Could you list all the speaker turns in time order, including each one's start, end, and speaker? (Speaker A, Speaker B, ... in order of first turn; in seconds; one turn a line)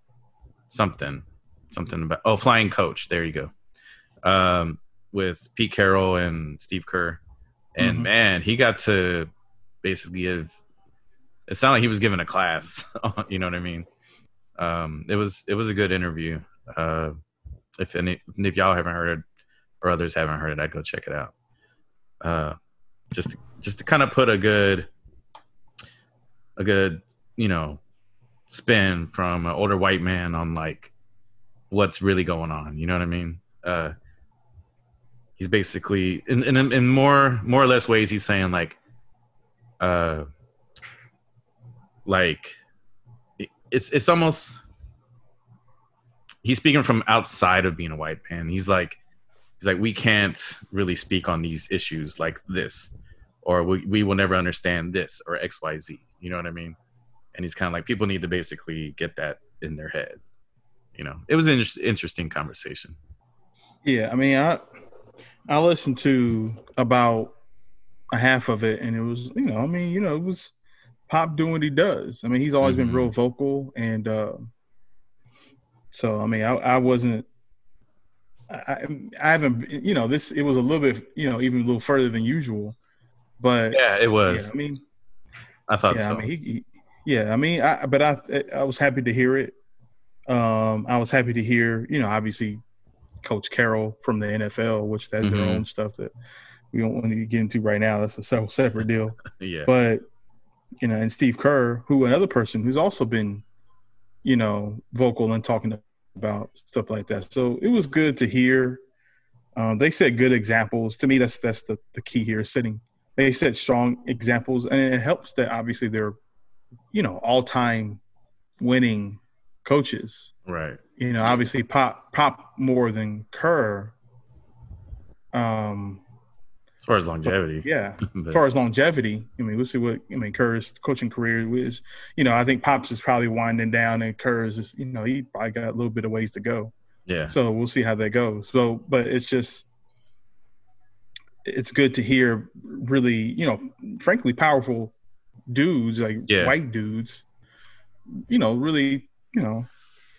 Speaker A: 0.7-3.5
Speaker A: 4.2-7.2
Speaker A: 7.7-9.3
Speaker B: 7.8-8.1
Speaker A: 9.8-10.5
Speaker A: 11.5-13.9
Speaker A: 14.6-17.1
Speaker A: 17.8-19.2
Speaker A: 19.8-21.3
Speaker A: 22.2-22.6
Speaker A: 23.1-24.9
Speaker A: 26.6-27.8
Speaker A: 28.5-30.9
Speaker A: 31.7-33.9
Speaker A: 35.4-38.8
Speaker A: 39.8-40.2
Speaker A: 42.0-42.6
Speaker A: 43.4-44.6
Speaker A: 46.4-49.0
Speaker A: 49.6-56.8
Speaker A: 57.3-60.2
Speaker A: 61.0-63.0
Speaker B: 63.8-64.6
Speaker B: 65.5-67.3
Speaker B: 68.1-70.5
Speaker B: 71.1-74.5
Speaker A: 72.6-73.1
Speaker B: 75.9-77.3
Speaker B: 78.5-82.8
Speaker B: 83.4-84.8
Speaker A: 83.7-84.5
Speaker A: 85.7-86.2
Speaker B: 85.9-89.5
Speaker B: 90.3-92.6
Speaker B: 93.2-96.1
Speaker A: 95.2-95.6
Speaker B: 96.7-100.0
Speaker A: 99.3-99.7
Speaker B: 100.8-103.4
Speaker B: 104.2-108.8
Speaker B: 109.5-116.2
Speaker B: 116.9-118.0
Speaker B: 118.6-120.3
Speaker A: 120.5-120.8
Speaker B: 121.0-123.9
Speaker B: 125.3-126.0
Speaker A: 126.8-128.4
Speaker B: 127.2-136.7
Speaker A: 137.1-137.3
Speaker B: 137.3-139.7
Speaker B: 141.4-144.9
Speaker B: 145.5-147.2
Speaker A: 146.3-146.5
Speaker B: 148.3-149.7